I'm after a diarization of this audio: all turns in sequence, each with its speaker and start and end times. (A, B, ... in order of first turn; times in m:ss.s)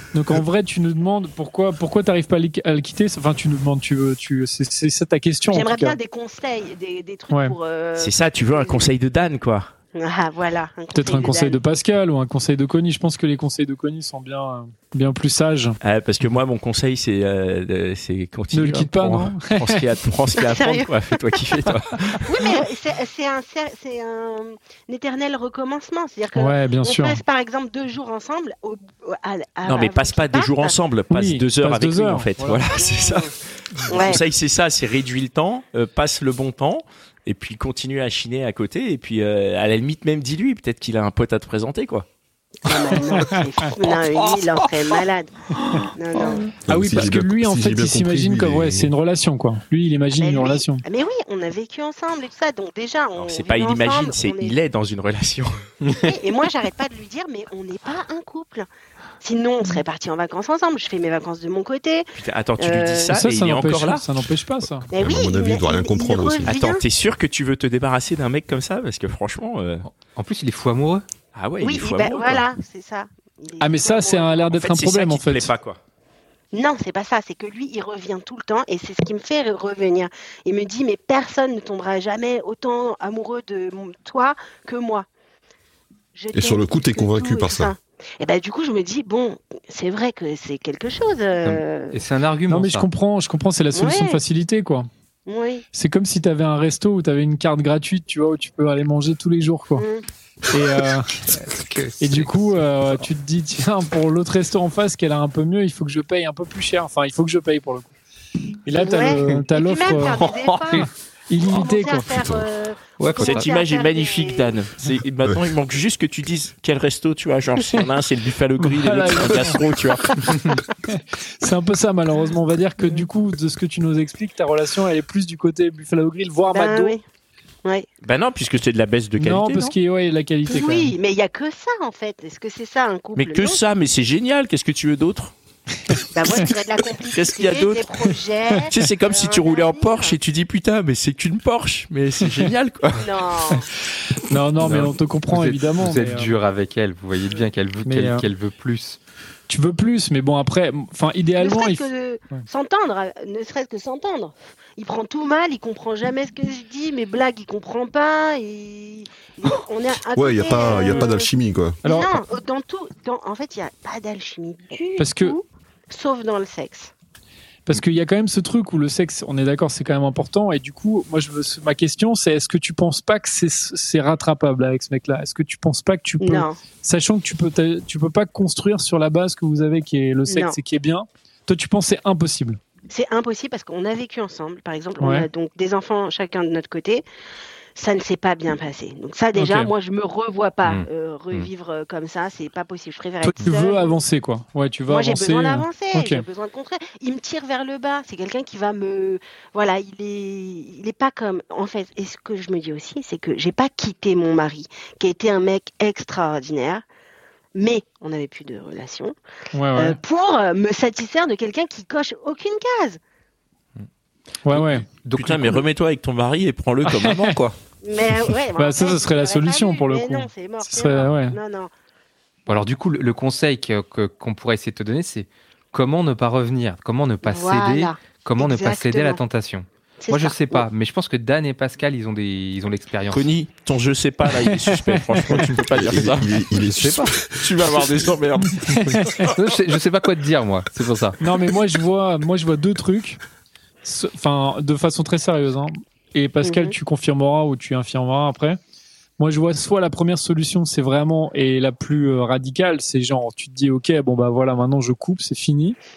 0:00.1-0:06.0 A
0:05.5-0:08.9 B
0:07.3-0:07.6 A
0:08.0-0:09.7 C
0:09.9-0:11.6 B
0:10.9-0:15.8 A
0:15.8-0:22.2 C
0:18.5-0:19.8 A
0:20.4-0:20.9 B
0:22.2-0:30.8 B
0:26.4-0:27.2 A
0:29.7-0:42.1 C
0:31.1-0:32.6 A
0:32.8-0:33.3 B
0:33.9-0:34.2 B
0:42.6-0:45.3 B
0:45.7-0:46.4 D
0:45.9-0:46.5 B
0:46.6-0:50.8 A
0:46.7-0:48.9 E
0:50.2-0:54.6 B
0:53.2-0:55.6 C
0:55.8-0:56.2 D
0:56.0-0:58.7 B
0:59.2-1:03.2 B
1:02.2-1:04.1 C
1:03.1-1:04.9 A
1:04.9-1:06.6 E
1:04.9-1:06.8 B
1:06.5-1:09.9 C
1:09.8-1:11.0 D
1:11.4-1:12.5 C
1:11.6-1:14.5 B
1:13.6-1:15.5 A
1:14.5-1:15.8 C
1:16.5-1:25.1 B
1:26.2-1:32.0 B
1:26.3-1:27.7 E
1:31.4-1:32.9 D
1:32.5-1:34.9 A
1:33.7-1:34.2 B
1:35.3-1:35.6 B
1:35.8-1:39.8 A
1:39.8-1:40.0 B
1:40.5-1:41.2 A
1:41.3-1:43.1 D
1:42.0-1:47.9 A
1:48.6-1:52.1 A
1:48.8-1:54.5 B
1:50.0-1:50.9 D
1:52.1-1:52.5 E
1:53.0-1:53.5 D
1:53.2-2:00.4 C
1:58.6-1:59.6 A
2:00.3-2:07.0 A
2:06.5-2:07.0 B
2:08.0-2:09.7 C
2:09.2-2:11.0 A
2:10.5-2:13.6 B
2:13.2-2:15.3 C
2:16.1-2:20.2 B
2:17.1-2:17.9 C
2:18.7-2:23.0 C
2:23.0-2:23.7 B
2:24.2-2:26.3 A
2:24.6-2:29.0 D
2:27.8-2:28.2 A
2:29.5-2:32.5 A
2:31.4-2:41.3 B
2:40.1-2:41.8 E
2:41.8-2:42.2 A
2:41.8-2:46.9 B
2:45.0-2:45.4 A
2:47.7-3:02.6 A
2:56.2-2:56.6 B
3:00.3-3:00.6 B
3:02.9-3:07.0 B
3:05.0-3:05.3 A
3:07.8-3:14.0 B
3:09.4-3:09.7 A
3:10.6-3:11.5 D
3:13.2-3:16.2 A
3:14.9-3:26.8 B
3:27.6-3:29.2 B
3:29.5-3:30.0 A
3:29.8-3:33.0 B
3:34.4-3:34.9 A
3:34.5-3:35.6 D
3:34.5-3:37.6 C
3:36.9-3:37.4 A
3:37.8-3:41.7 B
3:38.6-3:41.4 A
3:42.5-3:53.2 D
3:47.2-3:49.2 B
3:50.0-3:50.7 B
3:53.1-3:56.4 C
3:54.5-3:55.2 A
3:55.6-3:58.1 E
3:56.6-3:57.2 D
3:57.4-3:59.1 C
3:58.7-3:59.1 A
3:58.8-4:01.2 D
4:01.2-4:03.2 A
4:03.8-4:08.6 A
4:06.4-4:06.8 B
4:09.2-4:15.8 A